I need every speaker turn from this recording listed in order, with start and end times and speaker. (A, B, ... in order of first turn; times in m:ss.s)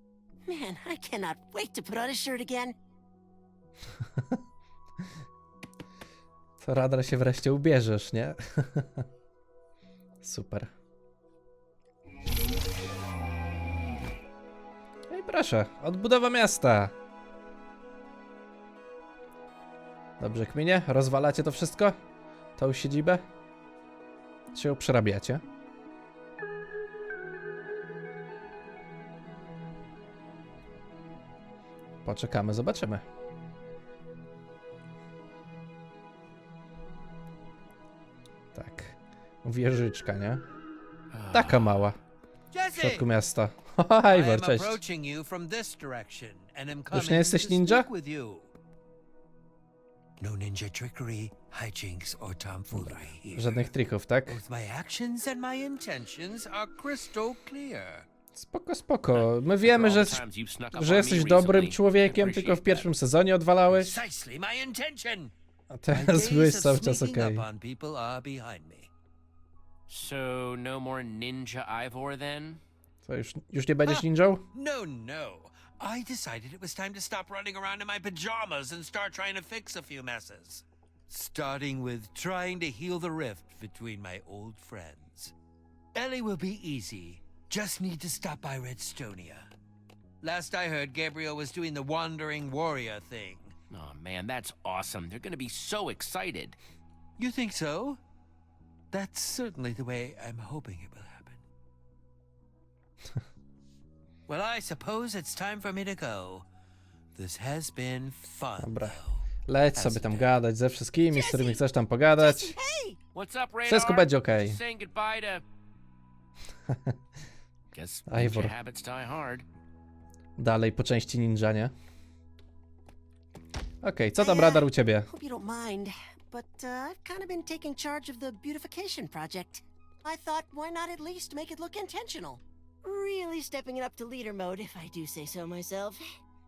0:00.5-0:02.8 A
0:06.6-0:09.0 B
0:10.2-0:10.7 B
0:15.1-0:16.9 B
0:20.2-0:22.0 B
0:22.6-0:23.2 B
0:24.5-0:25.4 B
0:32.0-0:33.0 B
0:38.6-0:40.4 B
0:41.1-0:41.6 C
0:41.3-0:42.0 B
0:42.5-0:43.1 D
0:42.8-0:44.8 B
0:44.1-0:48.5 D
0:46.9-0:47.9 B
0:50.2-0:53.7 D
0:52.7-0:54.4 B
0:54.3-0:58.1 D
0:58.4-1:00.2 B
0:59.1-1:02.9 C
1:00.7-1:04.0 B
1:03.7-1:05.3 D
1:05.7-1:07.4 B
1:05.9-1:08.9 D
1:09.9-1:12.6 C
1:13.1-1:14.4 B
1:13.9-1:25.3 D
1:25.9-1:29.5 D
1:30.2-1:33.5 D
1:33.7-1:36.6 C
1:37.2-1:38.0 D
1:38.9-1:41.4 D
1:44.3-1:46.5 D
1:47.1-1:50.3 D
1:48.6-1:52.6 B
1:51.1-1:51.6 A
1:52.2-1:53.0 A
1:53.1-1:55.4 C
1:53.7-1:54.6 B
1:57.7-1:59.4 C
1:58.1-1:58.5 B
2:00.4-2:01.7 B
2:03.8-2:05.1 B
2:04.2-2:16.1 A